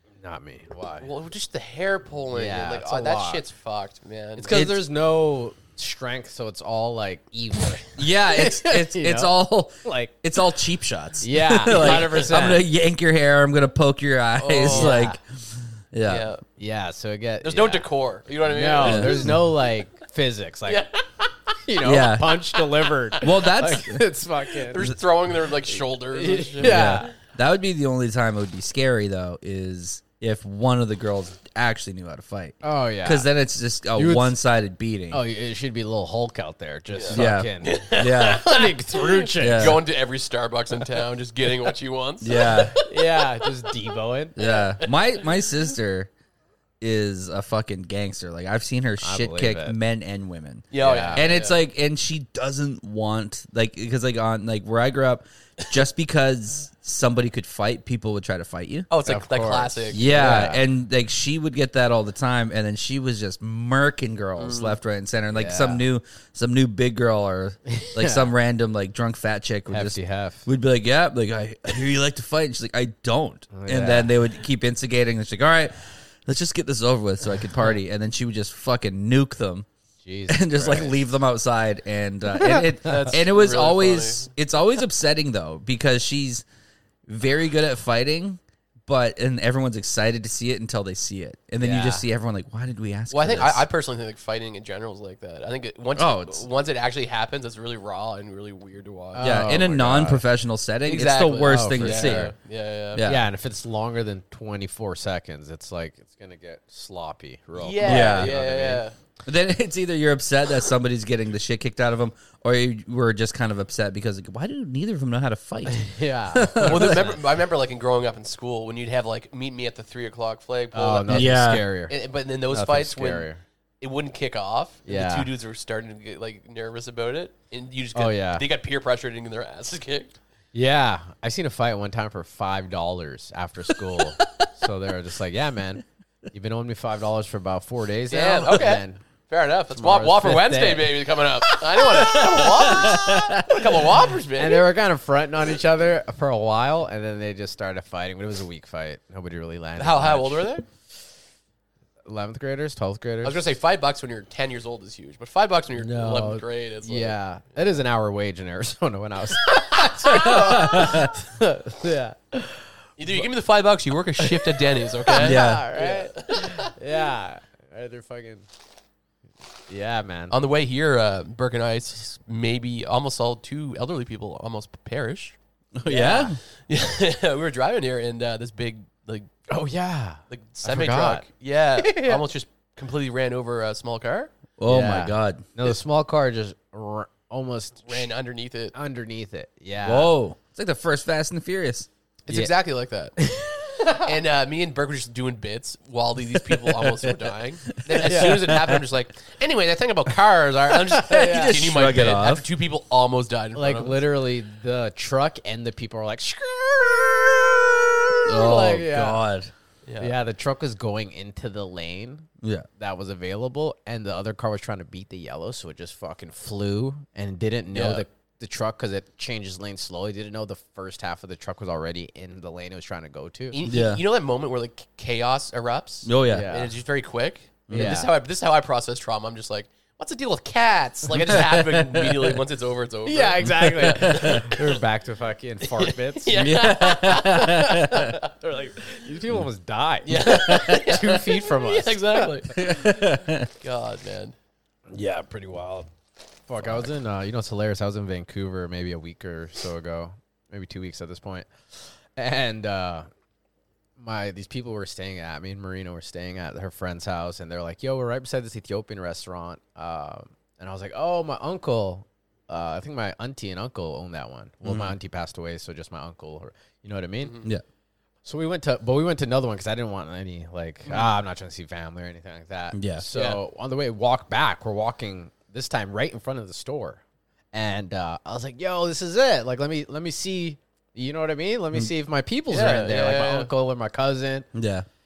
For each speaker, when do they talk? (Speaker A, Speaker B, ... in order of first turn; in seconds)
Speaker A: 0.2-1.1, 2.3-3.4, 4.3-10.1, 11.2-12.7, 14.7-15.2, 16.6-17.9, 18.4-20.9, 21.5-25.0, 25.7-27.1, 32.6-33.3, 33.9-34.4, 35.1-39.8, 42.8-44.4, 49.0-49.8, 50.8-51.3, 59.0-60.6, 65.3-65.8, 67.7-68.3, 69.7-70.5, 73.5-74.1, 80.0-81.0, 82.3-83.1, 99.1-100.2, 101.4-102.3, 103.0-108.8, 115.7-117.2, 120.7-121.9, 122.5-123.4, 124.8-125.3, 127.9-128.4, 130.5-139.0, 139.7-142.7, 144.3-150.6, 152.1-153.4, 155.8-163.3, 164.2-168.4, 169.7-170.3, 175.8-176.3, 179.5-181.2, 181.8-182.2, 184.7-188.1, 188.7-190.1, 193.2-194.1, 198.0-198.5, 201.0-201.6, 203.5-209.2, 210.0-212.3, 212.8-223.6, 226.3-226.7, 227.7-228.1, 233.1-236.6, 237.3-242.3, 244.9-245.9, 246.5-251.5, 252.1-253.1, 254.0-267.4, 268.2-277.0, 277.5-284.5
Speaker B: 1.0-4.7, 14.4-15.0, 16.1-16.4, 17.4-19.3, 20.7-20.9, 22.6-23.3, 24.5-27.1, 36.9-43.1, 44.4-45.0, 50.7-51.6, 58.9-60.1, 64.4-64.8, 82.8-84.3, 91.6-92.0, 93.1-99.3, 100.8-103.0, 107.5-108.9, 116.6-121.3, 121.9-123.3, 123.8-130.2, 138.1-144.7, 149.8-150.6, 153.2-157.2, 163.0-166.7, 170.3-175.3, 176.6-179.3, 180.3-184.3, 187.8-188.7, 192.3-193.2, 193.8-204.0, 209.8-210.1, 217.7-218.0, 223.5-234.8, 235.6-238.2, 240.1-244.3, 267.2-267.5, 273.1-273.4, 282.5-283.5
Speaker C: 4.5-4.8, 8.0-16.3, 18.8-19.4, 21.8-22.4, 23.2-24.1, 26.6-35.2, 37.1-38.5, 39.4-39.8, 42.2-42.8, 44.4-46.1, 46.8-58.9, 59.9-79.7, 80.3-86.4, 87.1-93.6, 96.0-96.5, 99.2-102.3, 102.9-103.2, 107.8-108.3, 109.2-117.0, 121.1-121.6, 142.0-143.5, 160.0-161.1, 165.2-165.7, 175.8-176.4, 184.6-185.5, 189.8-192.5, 196.8-197.1, 197.8-198.8, 201.0-202.4, 208.2-209.5, 212.4-212.7, 223.6-224.0, 226.0-226.5, 227.7-228.1, 231.1-232.4, 233.4-234.5, 236.3-238.2, 240.2-240.8, 242.5-243.5, 246.6-246.9, 264.6-264.9, 272.7-273.0, 284.5-284.9